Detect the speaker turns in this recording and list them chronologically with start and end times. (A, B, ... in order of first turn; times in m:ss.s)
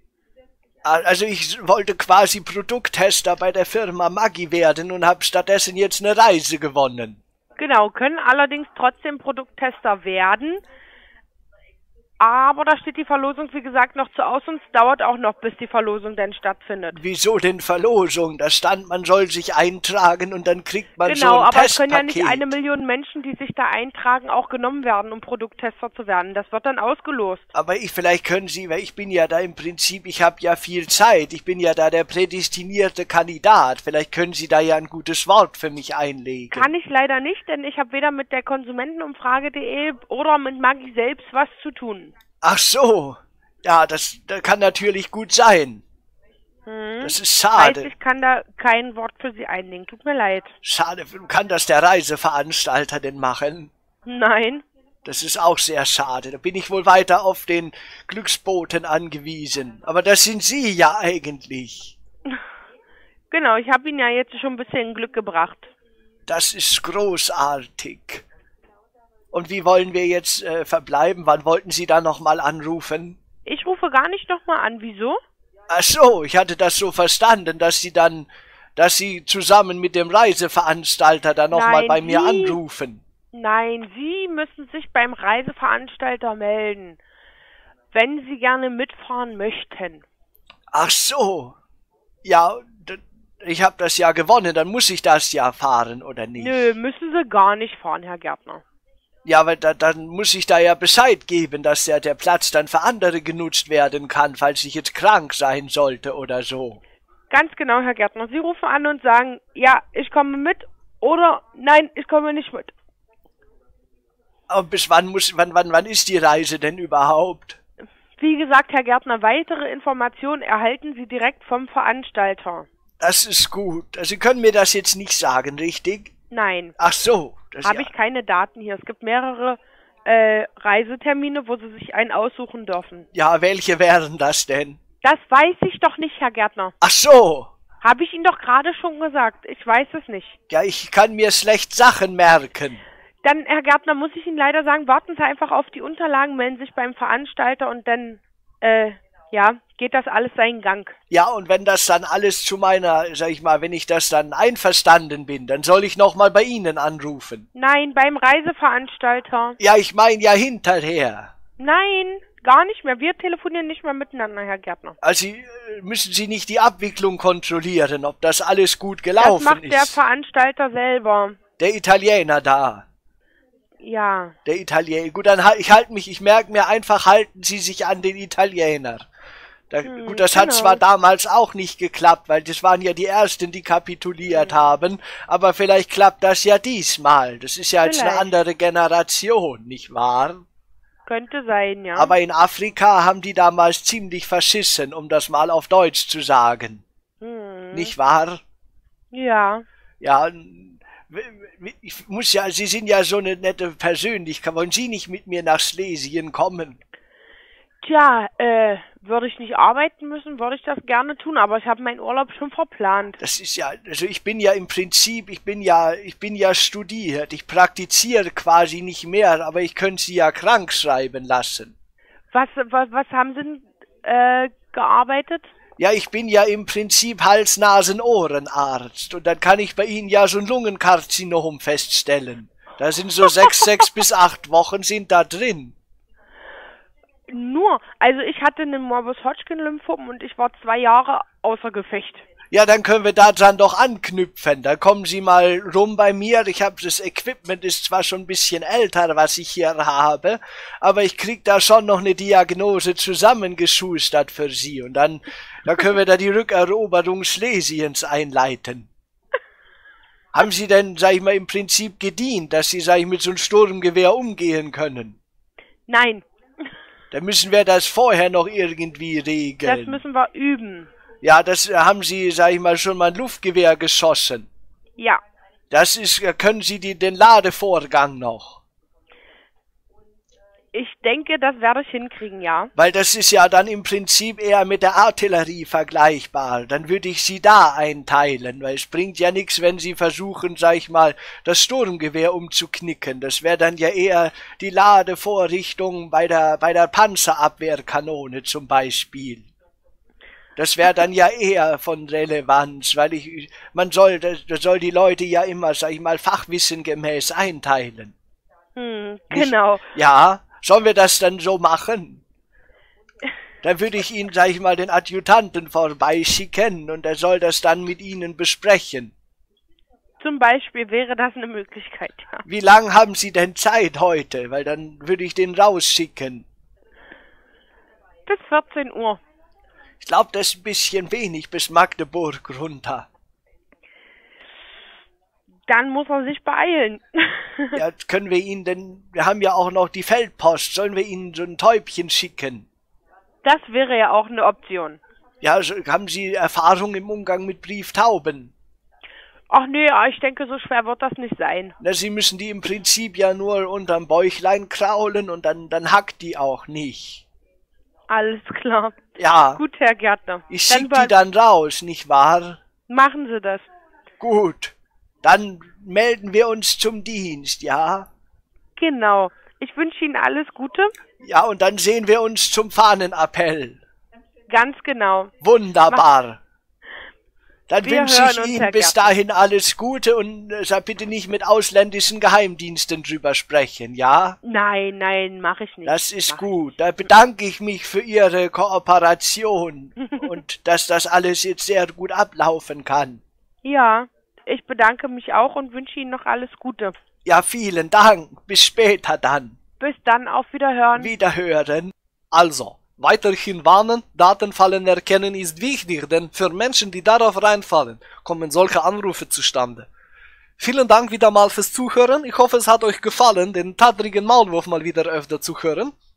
0:00.8-0:07.2 A
0:07.6-0:10.6 B
0:12.2-0:17.0 B
0:16.9-0:22.5 A
0:21.0-0:27.4 B
0:27.5-0:36.7 A
0:36.5-0:42.1 B
0:42.4-0:45.8 A
0:46.6-0:50.5 B
0:47.0-0:47.9 A
0:50.6-0:53.7 A
0:54.0-0:54.6 B
0:55.0-1:02.0 A
1:03.3-1:05.7 B
1:06.3-1:08.2 A
1:09.3-1:13.2 A
1:13.4-1:15.2 B
1:15.7-1:23.0 A
1:21.5-1:22.6 B
1:23.3-1:27.0 B
1:27.9-1:30.0 B
1:30.7-1:31.6 A
1:32.2-1:36.7 A
1:36.4-1:38.6 B
1:39.2-1:46.8 A
1:47.3-1:52.7 B
1:54.5-1:57.6 A
1:58.2-2:02.7 B
2:03.0-2:06.1 A
2:06.3-2:06.8 B
2:06.8-2:07.9 A
2:07.6-2:13.1 B
2:13.1-2:14.8 A
2:15.0-2:16.7 B
2:16.8-2:17.5 A
2:17.8-2:20.4 B
2:20.5-2:22.8 A
2:23.2-2:30.9 B
2:31.1-2:37.4 A
2:37.5-2:39.6 B
2:39.6-2:41.3 A
2:41.6-2:45.0 B
2:45.0-2:50.0 A
2:49.2-2:51.4 B
2:51.6-2:52.8 A
2:53.8-2:54.4 B
2:54.4-2:59.0 A
2:59.7-3:10.4 A
2:59.8-3:00.8 B
3:04.3-3:04.7 B
3:07.8-3:08.3 B
3:11.1-3:12.1 B
3:11.9-3:16.8 A
3:17.2-3:17.9 B
3:17.7-3:18.4 A
3:19.1-3:19.6 B
3:20.0-3:26.8 A
3:27.8-3:33.2 B
3:33.2-3:41.7 A
3:42.3-3:45.5 B
3:45.8-3:55.7 A
3:57.3-4:02.2 B
4:02.5-4:18.9 A
4:20.3-4:25.2 A
4:25.9-4:26.2 B
4:27.1-4:30.0 A
4:29.6-4:30.9 B
4:31.2-4:34.5 A
4:35.7-4:38.6 A
4:40.7-4:42.7 B
4:42.8-4:59.5 A
5:00.6-5:08.1 A
5:08.8-5:09.9 B
5:09.3-5:12.2 A
5:13.6-5:19.1 A
5:20.2-5:22.4 B
5:22.4-5:26.4 A
5:28.2-5:29.2 B
5:30.0-5:33.1 A
5:35.7-5:37.8 B
5:37.7-5:42.6 A
5:43.4-5:45.0 B
5:45.4-5:48.5 A
5:49.5-5:51.7 B
5:51.8-5:57.2 A
5:58.1-5:59.0 B
5:59.2-5:59.6 A
5:59.6-6:01.1 B
6:00.5-6:02.6 A
6:02.9-6:03.7 B
6:04.2-6:08.1 A
6:08.8-6:10.9 B
6:11.2-6:13.8 A
6:14.5-6:15.3 B
6:15.4-6:16.4 A
6:17.7-6:24.4 A
6:17.8-6:19.1 B
6:24.4-6:26.5 B
6:25.8-6:33.2 A
6:33.6-6:37.0 B
6:37.2-6:39.6 A
6:39.8-6:41.1 B
6:41.0-6:41.9 A
6:42.3-6:49.9 C
6:50.6-6:55.9 C